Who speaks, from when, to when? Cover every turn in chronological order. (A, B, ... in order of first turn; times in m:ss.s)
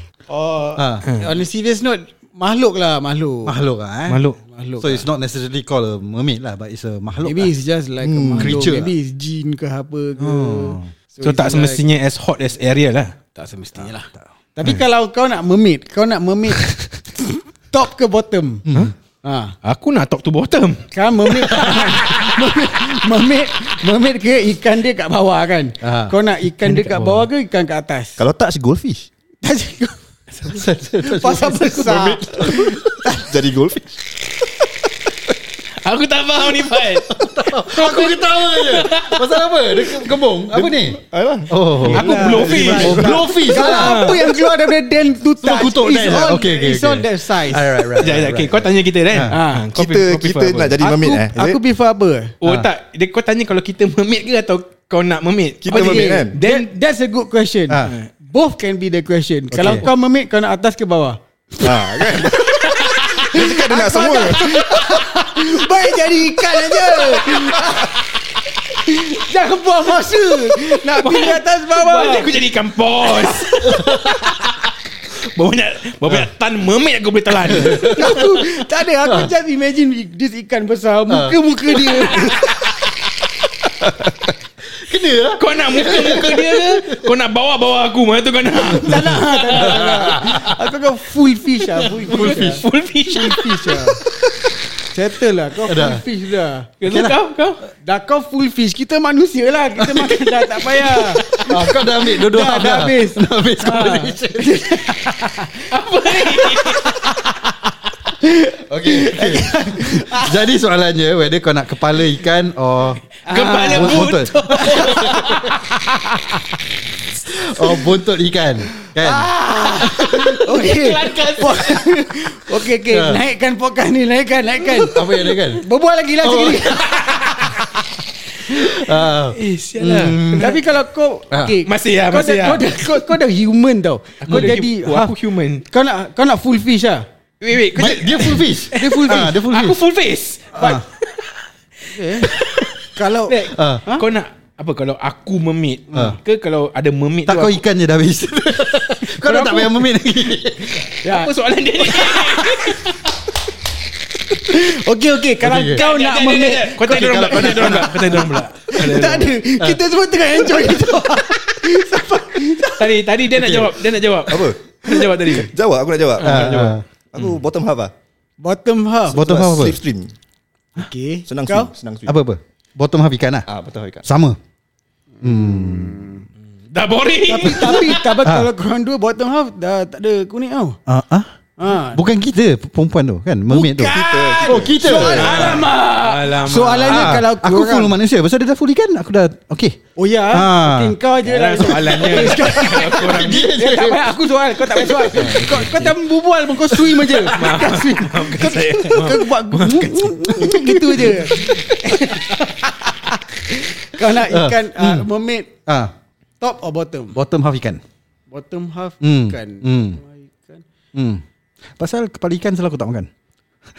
0:00.3-0:03.6 A
0:00.8-0:01.0 B
0:01.1-0:01.3 C
0:03.4-0:04.2 B
0:04.1-0:04.4 C
0:04.5-0:05.0 A
0:04.8-0:07.5 B
0:07.2-0:11.8 A
0:08.0-0:08.7 D
0:08.3-0:08.9 B
0:10.2-0:10.9 B
0:11.2-0:13.2 C
0:13.4-0:18.7 A
0:13.8-0:14.2 B
0:18.7-0:18.9 B
0:19.2-0:19.6 A
0:19.6-0:21.8 C
0:20.9-0:28.2 A
0:21.7-0:22.0 B
0:25.8-0:26.2 B
0:26.6-0:27.3 C
0:28.2-0:29.1 D
0:29.4-0:33.2 A
0:30.4-0:32.8 B
0:31.8-0:34.0 D
0:35.7-0:39.3 C
0:37.1-0:44.2 B
0:40.5-0:42.9 D
0:41.8-0:47.9 A
0:41.9-0:44.3 C
0:45.4-0:49.4 B
0:48.0-0:50.8 C
0:49.3-0:49.7 A
0:49.7-0:51.6 D
0:50.8-0:52.4 A
0:52.4-0:56.7 C
0:55.6-0:56.4 D
0:55.7-1:08.0 A
0:57.7-0:58.0 B
0:57.8-0:58.1 C
0:59.5-0:59.9 B
1:01.6-1:05.0 D
1:08.7-1:12.4 A
1:10.8-1:18.6 C
1:13.7-1:14.0 B
1:17.5-1:18.2 B
1:17.8-1:22.4 A
1:19.0-1:19.3 B
1:21.1-1:22.3 B
1:22.1-1:22.6 C
1:24.7-1:27.1 B
1:25.3-1:30.0 C
1:28.5-1:34.0 A
1:29.5-1:30.6 B
1:31.8-1:33.8 C
1:32.1-1:32.6 B
1:34.9-1:36.7 A
1:35.6-1:36.0 B
1:36.8-1:37.6 C
1:36.8-1:37.2 B
1:37.8-1:47.5 A
1:40.1-1:41.6 C
1:41.4-1:44.8 B
1:45.7-1:47.1 C
1:48.2-1:50.4 A
1:48.7-1:53.0 B
1:53.3-1:55.6 C
1:53.3-1:56.5 A
1:53.7-1:55.4 B
1:57.3-2:00.0 B
1:59.0-2:07.6 A
1:59.8-2:02.0 C
2:02.9-2:03.2 B
2:04.7-2:05.7 B
2:06.2-2:06.7 B
2:06.6-2:07.8 C
2:08.5-2:10.6 C
2:08.5-2:10.6 B
2:10.4-2:17.1 A
2:11.3-2:11.6 B
2:11.6-2:13.0 C
2:14.2-2:15.6 C
2:14.2-2:14.6 B
2:17.4-2:21.4 C
2:17.7-2:19.8 B
2:20.5-2:20.8 B
2:20.6-2:20.8 A
2:21.9-2:22.3 A
2:22.2-2:27.6 C
2:23.0-2:24.1 A
2:23.4-2:23.8 B
2:27.3-2:30.9 B
2:29.3-2:29.9 A
2:31.0-2:32.8 A
2:31.0-2:33.1 C
2:34.3-2:43.0 A
2:35.4-2:35.8 B
2:35.7-2:39.7 C
2:36.9-2:38.2 B
2:42.8-2:45.5 C
2:44.3-2:47.9 D
2:46.2-2:47.4 C
2:46.2-2:46.8 B
2:48.4-2:49.2 A
2:49.1-2:49.8 B
2:49.1-2:50.1 D
2:50.8-2:51.7 A
2:51.3-2:52.2 D
2:52.1-2:53.5 B
2:53.5-2:54.1 D
2:54.0-2:54.4 B
2:55.2-2:56.3 A
2:55.2-2:56.0 B
2:56.7-2:58.2 C
2:57.2-3:00.8 A
2:58.2-2:58.5 B
3:00.9-3:05.7 B
3:01.6-3:02.0 A
3:03.5-3:08.0 A
3:03.8-3:05.6 D
3:05.1-3:07.2 C
3:06.8-3:09.8 B
3:10.0-3:25.5 A
3:10.3-3:11.0 B
3:11.2-3:13.7 C
3:11.8-3:14.1 B
3:14.8-3:15.6 B
3:15.1-3:16.0 C
3:17.0-3:22.4 C
3:24.2-3:25.1 B
3:25.7-3:25.9 B
3:26.4-3:27.2 A
3:27.1-3:27.8 B
3:28.3-3:30.6 A
3:29.0-3:30.0 B
3:30.9-3:31.2 B
3:31.8-3:33.1 B